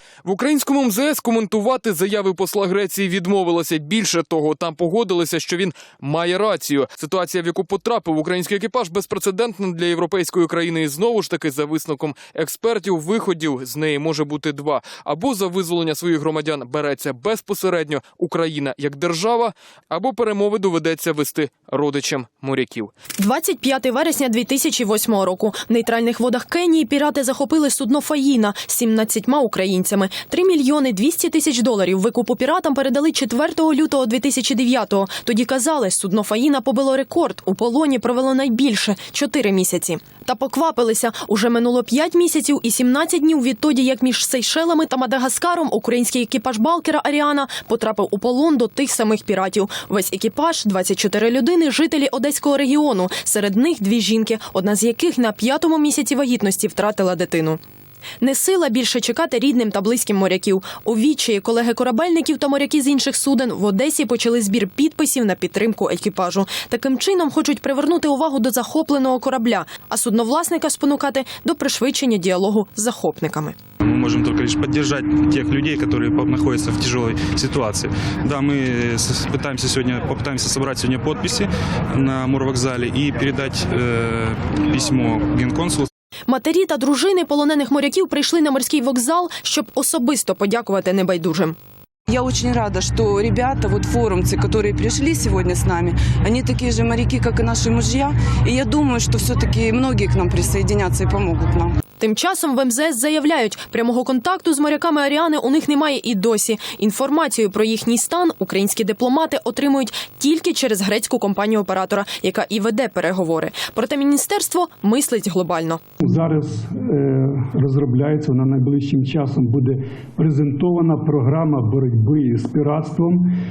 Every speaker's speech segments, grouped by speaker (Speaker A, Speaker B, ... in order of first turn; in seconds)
Speaker A: 0.2-22.9
Speaker B: 23.3-57.5, 58.2-73.5, 86.3-91.5, 102.0-115.7
Speaker C: 73.8-85.8
Speaker D: 92.1-101.7
Speaker E: 116.0-123.3